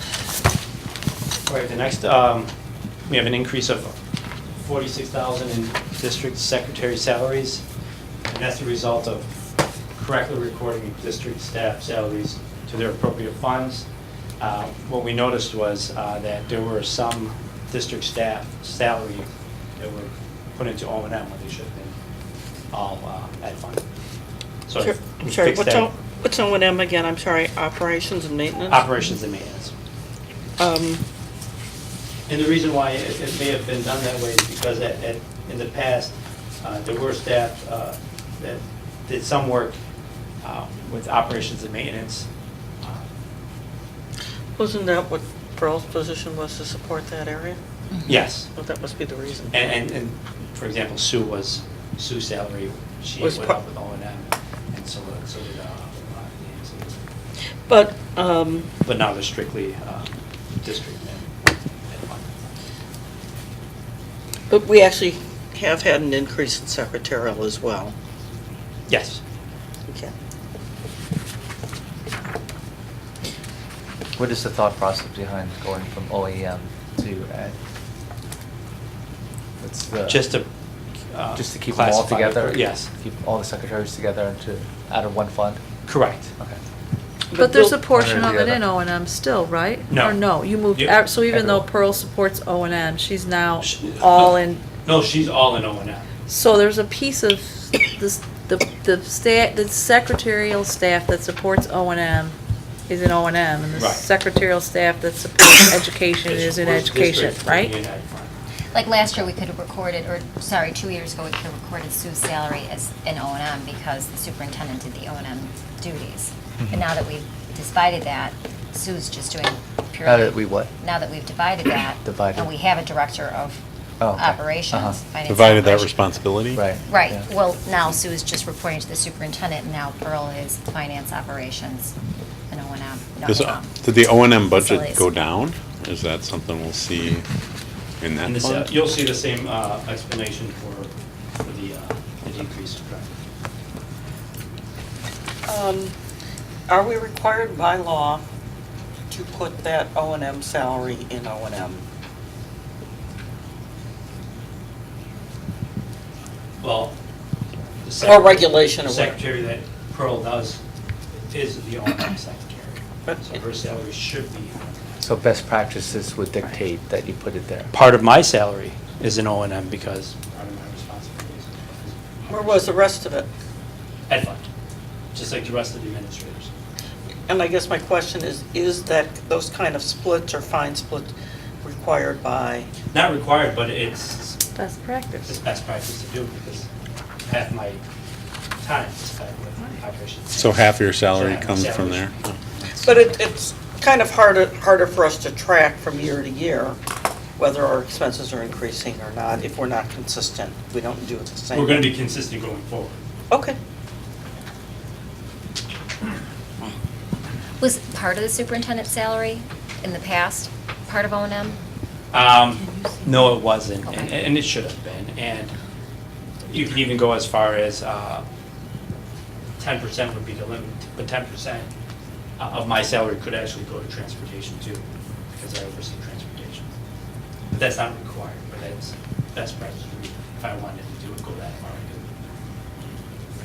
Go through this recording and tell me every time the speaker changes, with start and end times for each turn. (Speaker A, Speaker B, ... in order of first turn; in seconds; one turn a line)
Speaker A: 1.4-2.5
Speaker A: 3.1-3.9
Speaker A: 4.6-7.6
Speaker A: 8.3-9.3
Speaker A: 9.9-13.8
Speaker A: 14.4-21.9
Speaker A: 22.7-23.8
Speaker A: 24.7-25.9
Speaker B: 24.8-28.9
Speaker A: 28.7-29.7
Speaker B: 30.6-31.0
Speaker A: 32.3-39.8
Speaker A: 40.4-42.3
Speaker B: 44.6-47.6
Speaker A: 48.0-48.5
Speaker B: 48.5-49.7
Speaker A: 49.5-57.0
Speaker B: 53.2-53.6
Speaker B: 57.7-58.7
Speaker A: 58.8-61.3
Speaker A: 61.9-62.5
Speaker B: 64.5-67.9
Speaker A: 68.9-69.2
Speaker B: 69.9-70.1
Speaker C: 74.2-77.5
Speaker C: 79.6-80.3
Speaker A: 80.1-80.5
Speaker A: 81.1-82.9
Speaker C: 81.3-85.6
Speaker A: 85.9-86.3
Speaker B: 87.3-87.8
Speaker D: 87.3-94.6
Speaker C: 87.9-88.6
Speaker A: 89.9-91.1
Speaker C: 91.3-91.6
Speaker A: 93.6-96.1
Speaker D: 96.3-102.3
Speaker D: 102.9-107.7
Speaker A: 103.7-104.0
Speaker A: 106.2-108.3
Speaker E: 108.7-126.0
Speaker C: 120.0-120.7
Speaker C: 122.0-122.5
Speaker C: 124.0-125.0
Speaker F: 125.2-126.7
Speaker C: 126.5-127.2
Speaker E: 126.8-131.9
Speaker E: 132.5-133.7
Speaker F: 133.2-137.2
Speaker E: 134.5-135.1
Speaker F: 138.0-138.7
Speaker A: 138.2-140.9
Speaker A: 141.4-143.1
Speaker B: 145.5-145.9
Speaker B: 146.7-148.2
Speaker B: 149.1-151.8
Speaker A: 156.6-156.9
Speaker A: 157.8-160.6
Speaker B: 158.0-159.2
Speaker A: 161.3-165.0
Speaker C: 165.0-167.7
Speaker A: 167.7-172.7
Speaker B: 172.3-173.3
Speaker A: 174.1-174.5
Speaker A: 175.1-176.5
Speaker B: 177.3-181.1
Speaker B: 181.6-182.7
Speaker A: 182.9-184.4
Speaker D: 184.6-185.4
Speaker A: 185.2-186.7
Speaker A: 187.2-187.8
Speaker A: 188.6-192.8
Speaker F: 190.3-192.3
Speaker B: 192.8-196.8
Speaker B: 197.4-201.9
Speaker A: 201.5-203.0
Speaker B: 203.3-203.6
Speaker E: 207.6-211.6
Speaker A: 212.1-215.5
Speaker E: 212.8-214.3
Speaker A: 216.5-218.2
Speaker A: 219.6-221.7
Speaker A: 222.4-224.8
Speaker A: 225.3-226.7
Speaker A: 227.5-232.1